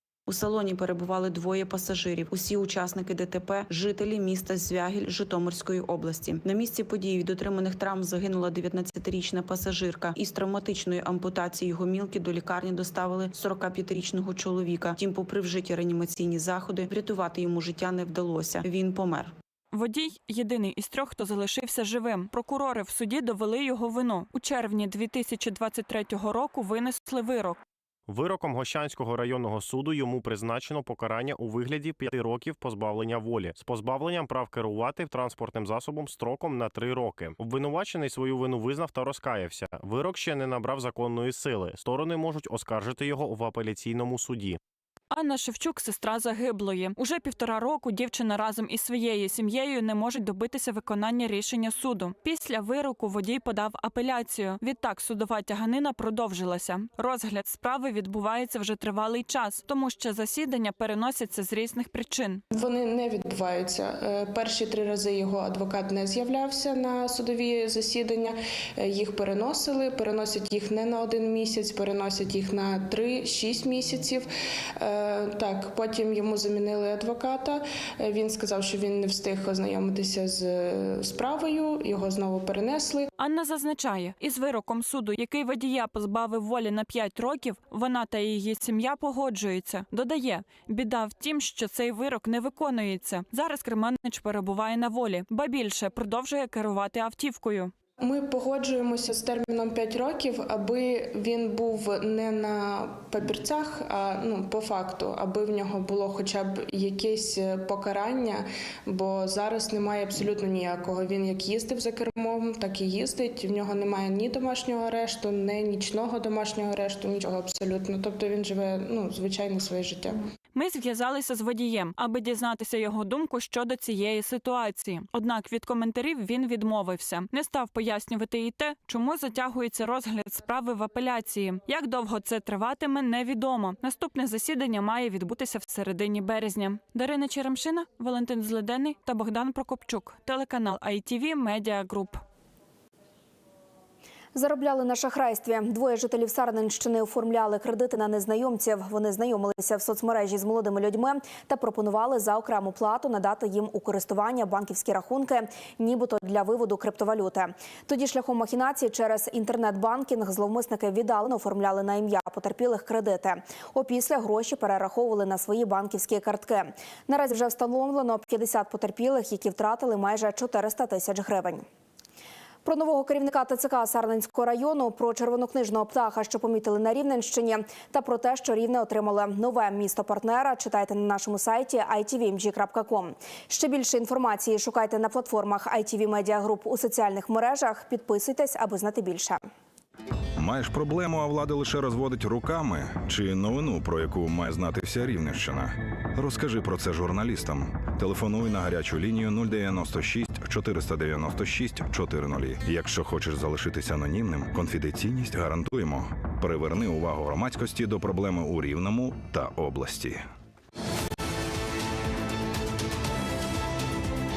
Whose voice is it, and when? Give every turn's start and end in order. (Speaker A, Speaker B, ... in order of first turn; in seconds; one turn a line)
Speaker A: 0.3-19.3
Speaker B: 19.7-27.6
Speaker C: 28.1-44.6
Speaker B: 45.1-62.4
Speaker D: 62.5-74.3
Speaker D: 74.8-83.1
Speaker B: 83.2-97.7
Speaker D: 98.0-120.2
Speaker B: 120.5-142.2
Speaker E: 144.3-171.7
Speaker E: 172.6-189.4
Speaker F: 190.4-210.2